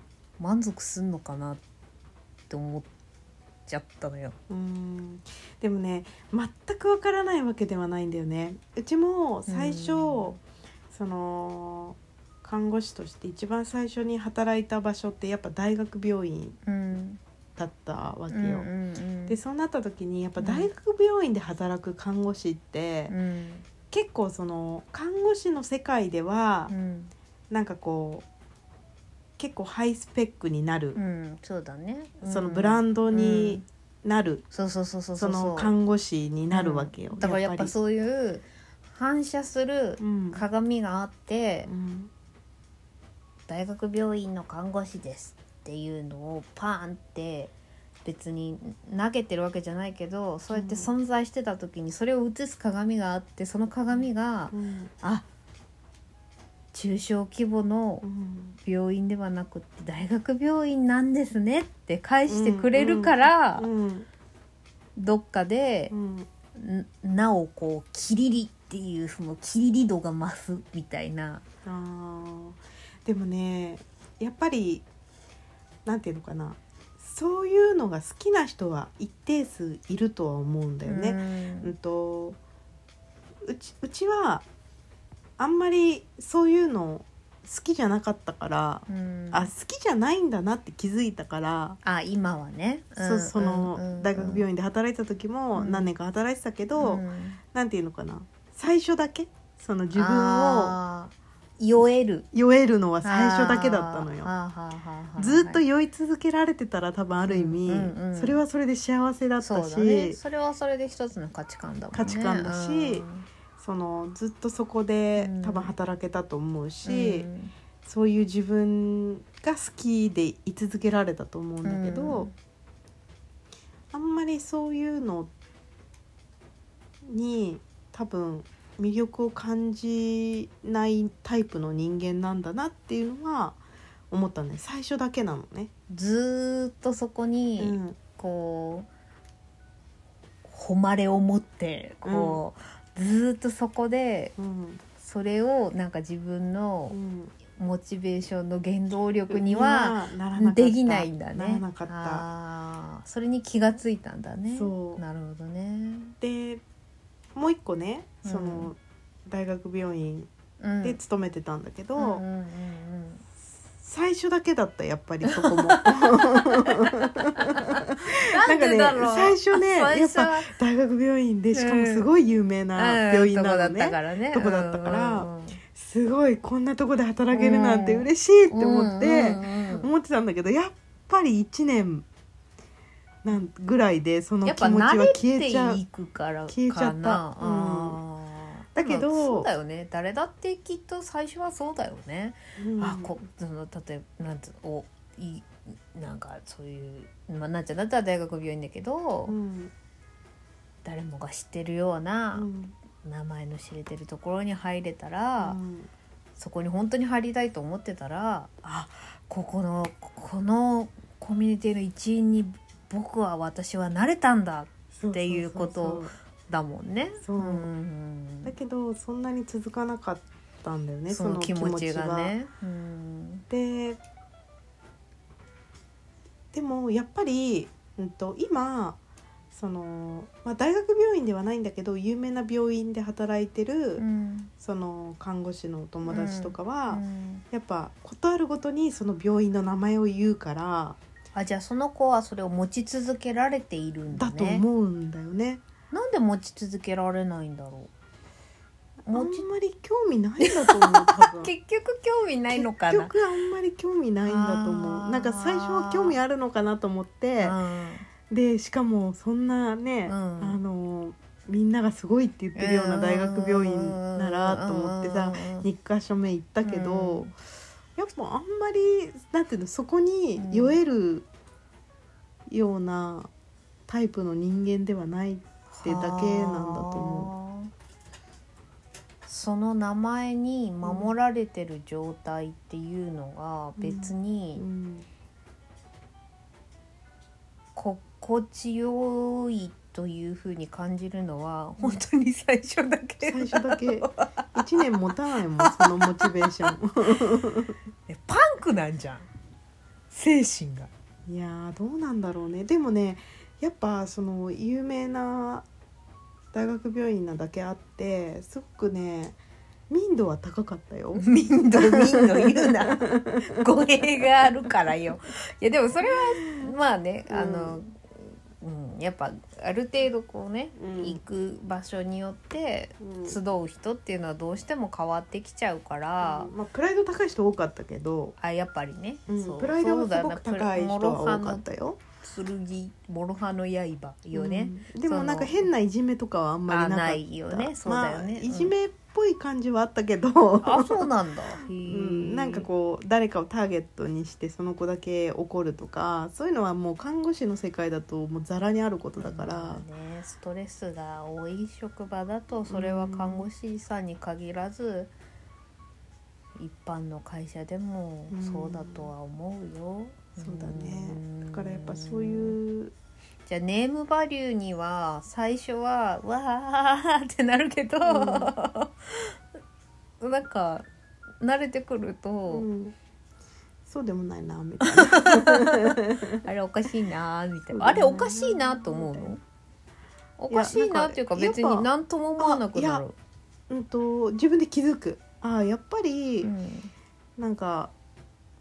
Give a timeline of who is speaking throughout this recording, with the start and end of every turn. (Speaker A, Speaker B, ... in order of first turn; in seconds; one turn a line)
Speaker A: 0.4-1.6
Speaker A: 2.5-2.9
Speaker A: 3.7-4.3
Speaker B: 4.5-16.6
Speaker A: 9.5-10.3
Speaker A: 16.6-17.2
Speaker B: 17.6-18.7
Speaker A: 18.3-19.4
Speaker B: 19.3-23.1
Speaker A: 20.4-20.7
Speaker A: 23.1-23.6
Speaker B: 23.9-26.7
Speaker A: 26.7-27.1
Speaker B: 27.5-28.3
Speaker B: 29.4-31.0
Speaker A: 30.9-33.6
Speaker B: 32.2-34.4
Speaker A: 34.5-35.7
Speaker B: 35.2-37.7
Speaker A: 36.5-41.7
Speaker B: 40.0-40.4
Speaker B: 41.6-42.1
Speaker A: 43.5-47.5
Speaker A: 48.0-55.2
Speaker B: 50.5-50.9
Speaker B: 54.5-54.9
Speaker A: 56.7-58.0
Speaker B: 58.0-58.6
Speaker A: 58.6-63.6
Speaker B: 62.3-64.1
Speaker A: 65.0-65.9
Speaker B: 65.9-66.3
Speaker A: 66.5-71.4
Speaker B: 71.6-74.8
Speaker B: 75.8-82.4
Speaker A: 80.8-81.7
Speaker B: 83.4-84.5
Speaker B: 85.4-91.8
Speaker A: 88.9-89.5
Speaker A: 91.8-94.4
Speaker B: 93.0-100.8
Speaker A: 95.5-95.9
Speaker A: 96.8-97.4
Speaker A: 99.9-102.3
Speaker B: 102.3-104.3
Speaker A: 103.0-105.6
Speaker B: 105.2-110.2
Speaker A: 107.2-108.4
Speaker A: 109.4-113.3
Speaker B: 111.9-113.0
Speaker B: 113.6-117.3
Speaker A: 115.2-115.7
Speaker A: 116.8-117.5
Speaker B: 117.8-122.3
Speaker A: 121.6-122.3
Speaker B: 123.9-125.3
Speaker B: 127.0-135.7
Speaker A: 135.9-138.9
Speaker B: 137.6-138.0
Speaker A: 140.4-144.3
Speaker B: 142.0-142.4
Speaker B: 144.4-144.8
Speaker A: 145.0-146.9
Speaker B: 146.9-147.3
Speaker A: 147.5-156.1
Speaker B: 149.3-152.2
Speaker B: 154.5-155.0
Speaker B: 156.2-156.6
Speaker B: 157.3-160.3
Speaker A: 158.2-158.7
Speaker A: 160.6-161.0
Speaker B: 160.8-162.2
Speaker A: 161.9-163.2
Speaker B: 163.8-182.1
Speaker A: 165.2-166.9
Speaker A: 168.3-170.5
Speaker A: 171.5-172.1
Speaker A: 172.7-175.6
Speaker A: 177.3-179.9
Speaker B: 183.2-185.8
Speaker A: 184.4-199.3
Speaker B: 186.5-188.0
Speaker B: 188.7-189.5
Speaker B: 192.6-193.1
Speaker B: 199.3-199.7
Speaker A: 200.8-202.5
Speaker B: 202.3-202.7
Speaker A: 203.0-205.6
Speaker B: 205.4-205.9
Speaker A: 206.4-218.5
Speaker B: 214.9-216.1
Speaker B: 217.2-217.7
Speaker B: 218.4-222.3
Speaker A: 221.1-223.4
Speaker B: 223.5-224.0
Speaker B: 226.5-229.0
Speaker B: 229.5-234.0
Speaker A: 234.0-234.5
Speaker B: 234.6-241.0
Speaker A: 236.1-237.4
Speaker A: 241.3-244.6
Speaker B: 244.1-245.6
Speaker A: 245.9-247.9
Speaker B: 249.1-251.5
Speaker A: 249.1-249.5
Speaker A: 250.4-253.1
Speaker B: 252.5-257.6
Speaker A: 254.2-256.2
Speaker A: 257.4-258.1
Speaker B: 258.3-267.3
Speaker A: 260.1-260.6
Speaker A: 262.6-265.7
Speaker A: 266.6-267.3
Speaker B: 267.9-271.2
Speaker A: 270.4-270.8
Speaker B: 272.5-273.3
Speaker B: 273.9-277.3
Speaker A: 275.7-277.7
Speaker A: 279.2-284.6
Speaker B: 280.8-281.1
Speaker B: 283.8-285.1
Speaker A: 287.7-294.2
Speaker B: 293.2-297.7
Speaker A: 295.6-296.7
Speaker A: 298.1-299.3
Speaker A: 300.1-300.9
Speaker B: 301.3-305.7
Speaker B: 306.5-309.4
Speaker B: 309.9-311.2
Speaker A: 311.1-326.5
Speaker B: 311.8-313.4
Speaker B: 316.0-316.7
Speaker B: 317.3-317.8
Speaker B: 320.8-321.2
Speaker B: 323.0-323.4
Speaker B: 326.2-328.4
Speaker A: 328.4-331.6
Speaker B: 329.3-332.0
Speaker A: 332.2-335.7
Speaker B: 334.3-349.8
Speaker A: 336.7-338.7
Speaker A: 340.6-342.7
Speaker A: 349.2-355.1
Speaker B: 352.7-353.5
Speaker A: 356.6-362.6
Speaker B: 358.3-359.1
Speaker B: 360.4-362.9
Speaker A: 363.5-369.3
Speaker B: 368.1-368.5
Speaker A: 370.2-370.9
Speaker A: 371.4-372.7
Speaker B: 372.5-372.9
Speaker B: 373.9-376.4
Speaker A: 374.9-379.4
Speaker B: 377.7-379.3
Speaker A: 380.4-383.1
Speaker B: 380.5-383.0
Speaker B: 383.7-386.5
Speaker A: 386.4-386.9
Speaker B: 387.4-387.9